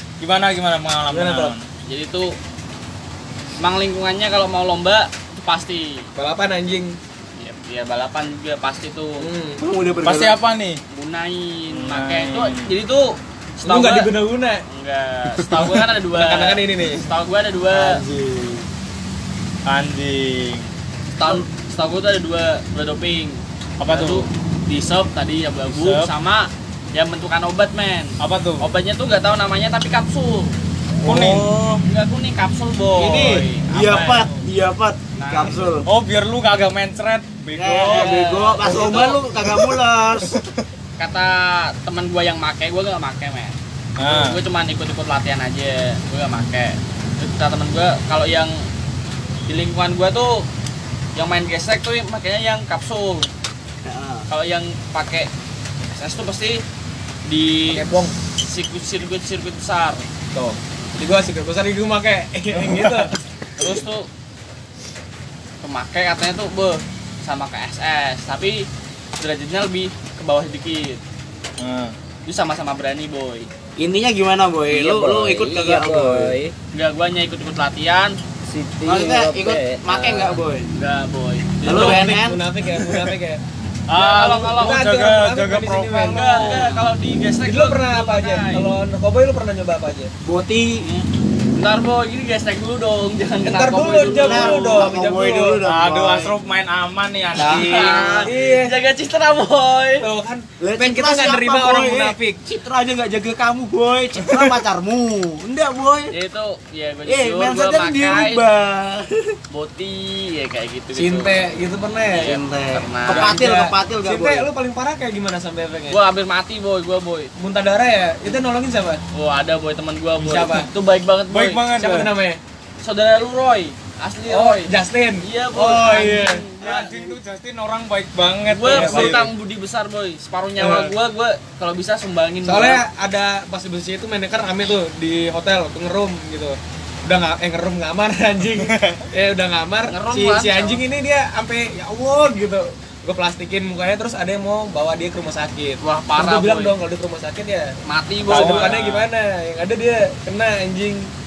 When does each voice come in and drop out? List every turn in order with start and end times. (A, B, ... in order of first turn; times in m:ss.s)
0:00.2-0:01.7 A
0:01.1-0:01.5 B
0:01.8-0:02.4 C
0:03.6-0:06.0 C
0:06.2-0:07.0 B
0:07.4-0:09.2 C
0:09.2-0:09.6 B
0:09.6-0:10.4 D
0:10.0-0:10.8 A
0:10.9-0:14.1 C
0:11.7-0:12.7 A
0:13.6-0:14.6 B
0:14.7-0:18.0 C
0:16.1-0:17.0 B
0:17.7-0:18.6 D
0:19.6-0:20.7 A
0:21.2-0:30.5 C
0:23.8-0:24.3 A
0:25.7-0:26.1 A
0:28.2-0:28.7 A
0:31.0-0:31.5 A
0:31.0-0:31.8 D
0:31.8-0:34.0 C
0:32.9-0:35.9 D
0:33.7-0:34.4 A
0:35.1-0:35.7 C
0:35.8-0:38.3 A
0:37.5-0:40.4 D
0:37.8-0:39.2 C
0:41.0-0:48.6 C
0:44.0-0:44.4 A
0:49.5-0:50.4 C
0:51.1-0:53.3 C
0:53.8-0:54.2 D
0:54.3-0:55.3 C
0:55.9-0:56.6 C
0:57.2-1:00.0 C
0:57.7-0:58.1 B
1:00.3-1:03.1 B
1:02.5-1:03.1 A
1:03.6-1:04.1 C
1:05.6-1:08.6 C
1:09.2-1:11.0 C
1:11.6-1:11.9 A
1:12.2-1:13.5 C
1:13.8-1:16.3 D
1:14.8-1:16.5 E
1:16.7-1:18.2 C
1:18.4-1:20.3 E
1:18.8-1:20.6 D
1:20.2-1:22.2 C
1:21.6-1:22.4 D
1:21.6-1:23.4 B
1:23.9-1:26.7 A
1:23.9-1:24.8 C
1:24.5-1:26.7 B
1:26.1-1:28.7 C
1:27.4-1:30.1 B
1:30.2-1:31.0 D
1:31.5-1:34.9 C
1:33.4-1:35.6 B
1:34.2-1:36.4 D
1:35.6-1:38.2 A
1:37.3-1:38.3 D
1:37.4-1:40.1 C
1:38.2-1:38.7 B
1:40.0-1:42.4 B
1:40.6-1:46.1 D
1:46.1-1:48.4 C
1:47.1-1:49.4 D
1:49.5-1:51.4 C
1:50.9-1:52.3 B
1:52.1-1:53.4 C
1:52.2-1:54.5 D
1:53.1-1:56.0 B
1:55.9-1:57.3 C
1:57.4-1:59.0 B
1:59.1-2:01.6 C
2:00.2-2:00.7 B
2:01.3-2:02.1 A
2:01.7-2:02.4 B
2:02.8-2:07.1 C
2:04.3-2:06.4 B
2:06.5-2:09.3 A
2:08.4-2:12.8 C
2:08.7-2:09.2 B
2:10.6-2:10.9 B
2:12.4-2:27.7 B
2:18.6-2:19.0 A
2:19.9-2:20.8 C
2:25.8-2:26.7 C
2:27.8-2:28.8 C
2:28.3-2:29.1 A
2:28.3-2:31.1 B